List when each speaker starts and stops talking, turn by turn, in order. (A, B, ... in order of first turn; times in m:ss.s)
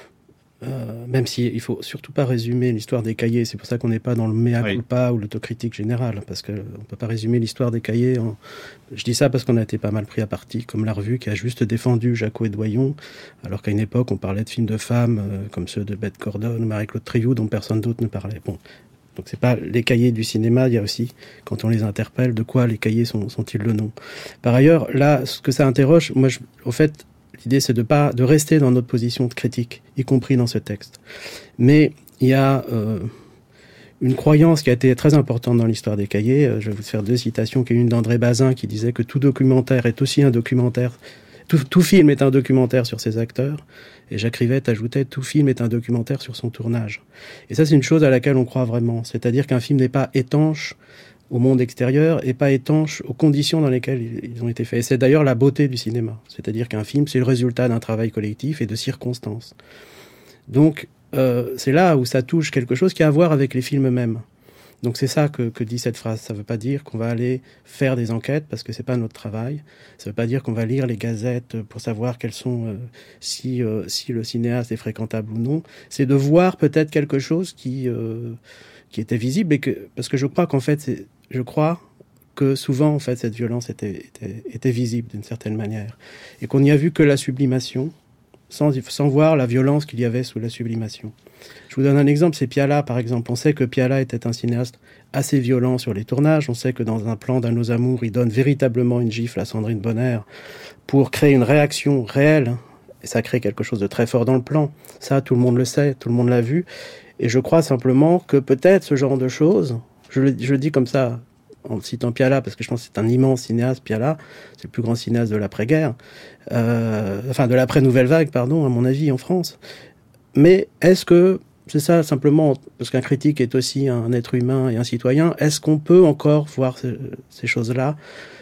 0:00.6-0:08.4 A
0:08.9-0:18.6 A
0:19.2-0:31.0 A
0:31.6-0:33.1 A
0:34.0-0:50.8 A
0:51.3-0:59.6 A
1:00.5-1:04.2 A
1:04.8-1:18.4 A
1:18.9-1:21.8 A
1:22.4-1:27.9 A
1:28.5-1:31.2 A
1:31.7-1:40.2 A
1:40.9-1:46.7 A
1:47.2-1:56.0 A
1:56.5-1:59.6 A
2:00.3-2:08.0 A